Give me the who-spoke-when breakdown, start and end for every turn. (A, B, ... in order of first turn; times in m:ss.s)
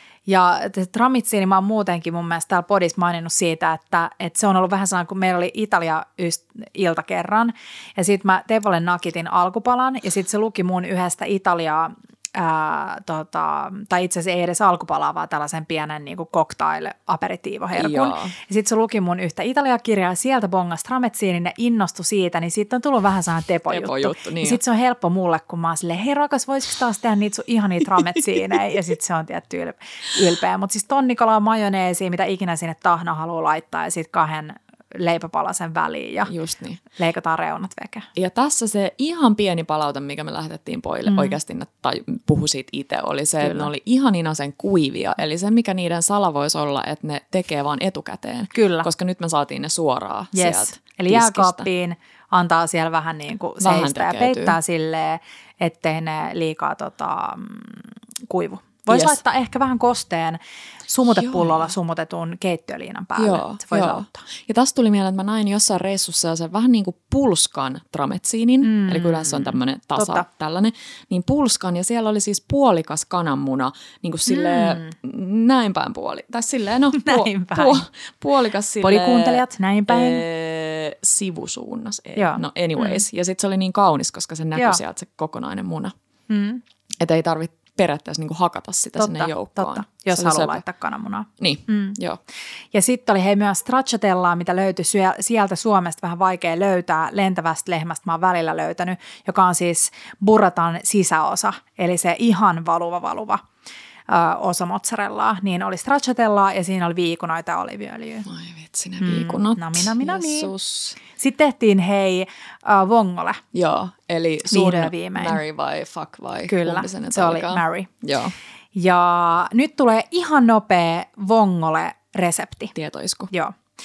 0:00.2-0:36.3 A
0:17.7-0:18.4 B
0:23.7-0:24.6 B
0:36.2-0:36.8 B
0:37.0-0:38.1 A
0:38.1-0:51.7 B
0:41.0-0:41.4 A
0:43.4-0:43.7 A
0:48.5-0:48.9 A
0:50.3-1:04.2 A
0:53.6-0:54.6 B
0:58.9-0:59.2 B
1:01.1-1:01.7 B
1:03.2-1:25.9 B
1:08.6-1:10.2 A
1:14.3-1:14.9 A
1:16.9-1:17.8 A
1:18.8-1:20.2 A
1:22.2-1:23.0 A
1:24.5-1:24.8 A
1:26.3-1:26.6 A
1:27.0-1:30.6 B
1:29.0-1:32.0 A
1:31.4-1:32.2 B
1:32.7-1:43.4 A
1:44.1-1:48.2 A
1:48.2-1:51.0 B
1:49.0-1:50.5 A
1:51.0-1:53.4 A
1:53.5-1:58.3 B
1:54.5-1:55.4 A
1:56.5-1:57.9 A
1:58.7-2:02.7 A
2:02.7-2:03.3 B
2:03.3-2:03.6 A